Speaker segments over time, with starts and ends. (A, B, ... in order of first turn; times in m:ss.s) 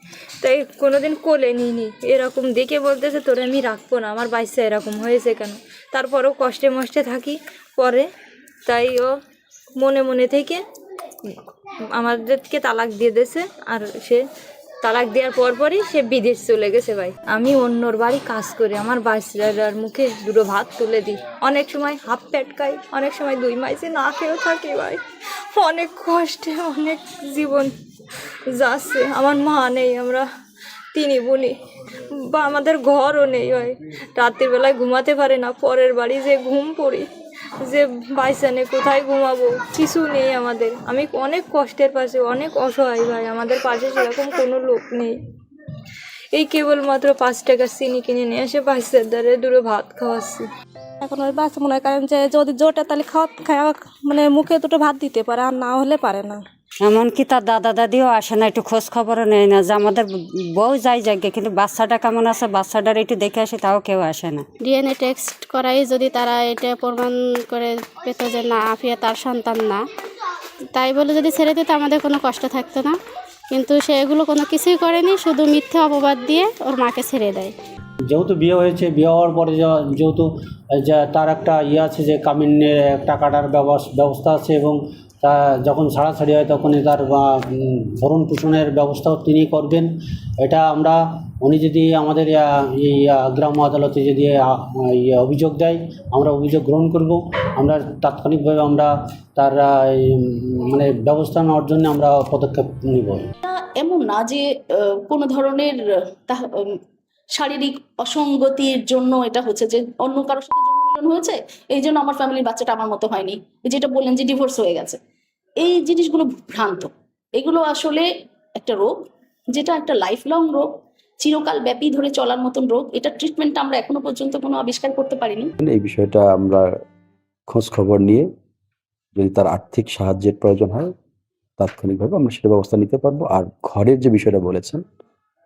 0:00.4-0:08.1 A
0:08.7-0:09.1 A
0:09.8-0:10.6 A
0:12.0-0:14.2 A
0:14.8-0:25.0 A
0:25.5-0:27.7 A
0:28.5-0:30.2 A
0:30.9-0:31.6 A
0:32.1-0:37.1 A
0:37.6-0:45.1 A
0:46.3-0:50.5 A
0:51.0-0:56.4 B
0:56.8-1:04.4 C
1:04.6-1:09.8 D
1:10.7-1:13.0 D
1:13.5-1:17.5 D
1:18.1-1:29.9 E
1:30.4-1:43.3 E
1:43.4-1:45.8 F
1:46.3-1:46.7 F
1:47.4-1:55.0 F
1:55.6-1:58.1 F
1:58.6-1:58.9 F
1:59.5-2:00.6 F
2:01.2-2:05.5 F
2:05.6-2:06.7 G
2:07.5-2:08.3 G
2:09.2-2:10.9 G
2:11.6-2:14.8 G